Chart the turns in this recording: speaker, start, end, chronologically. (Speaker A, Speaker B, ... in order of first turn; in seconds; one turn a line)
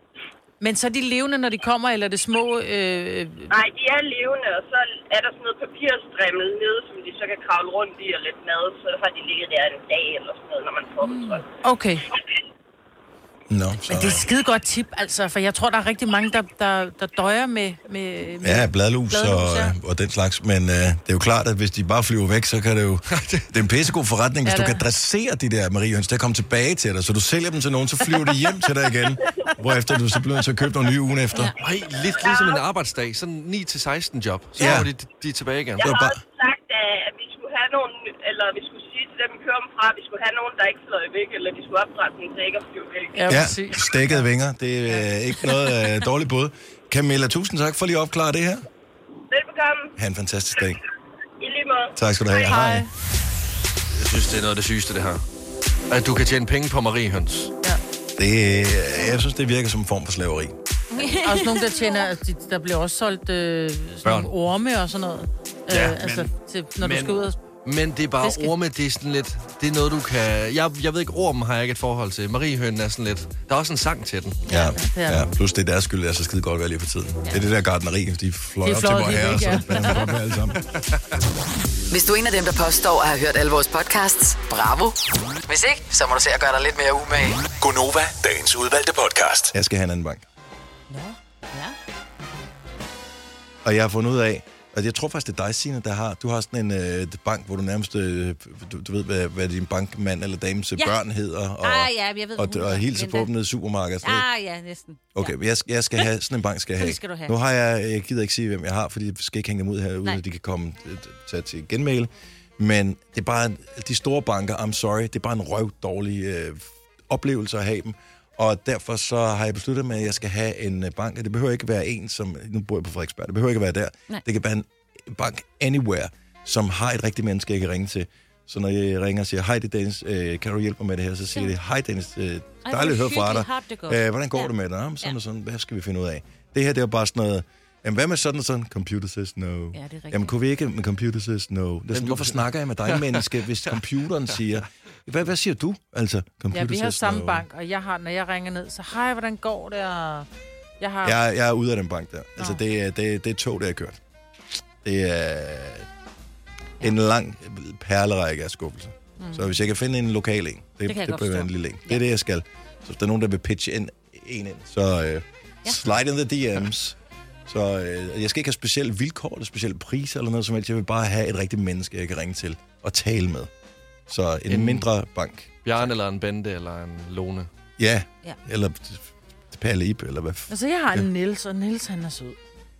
Speaker A: 0.6-3.5
Speaker B: 3.5-11.4
Speaker A: 11.6-12.0
Speaker C: 13.5-14.2
Speaker A: 13.9-19.7
Speaker C: 18.4-31.5
Speaker D: 23.1-23.4
Speaker A: 24.4-24.8
Speaker D: 31.6-35.9
Speaker B: 32.2-32.6
Speaker C: 34.6-34.9
Speaker B: 35.8-43.5
Speaker C: 35.8-36.2
Speaker A: 43.1-44.2
Speaker C: 43.3-48.6
Speaker B: 49.3-49.9
Speaker C: 50.0-50.8
Speaker B: 51.4-52.6
Speaker C: 52.0-52.9
Speaker A: 52.5-52.9
Speaker D: 53.9-55.2
Speaker D: 55.9-57.5
Speaker C: 58.2-60.5
Speaker E: 60.9-62.1
Speaker A: 61.2-67.3
Speaker D: 64.0-64.3
Speaker D: 65.7-74.4
Speaker A: 68.2-68.5
Speaker C: 74.5-80.6
Speaker A: 74.5-75.3
Speaker A: 78.6-80.1
Speaker F: 81.9-87.5
Speaker G: 87.6-89.5
Speaker C: 89.5-90.2
Speaker E: 90.9-91.7
Speaker C: 93.6-104.3
Speaker E: 101.6-103.3
Speaker E: 104.0-105.3
Speaker C: 105.2-147.4
Speaker E: 106.8-107.3
Speaker E: 132.6-134.5
Speaker E: 139.7-140.3
Speaker D: 141.9-143.2
Speaker A: 146.5-150.3
Speaker A: 150.8-151.2
Speaker C: 151.0-154.0
Speaker C: 154.8-155.9
Speaker C: 156.8-173.5
Speaker E: 160.8-162.0
Speaker C: 174.1-175.9
Speaker D: 174.5-174.9
Speaker D: 175.6-177.5
Speaker C: 177.8-180.5
Speaker A: 180.5-182.4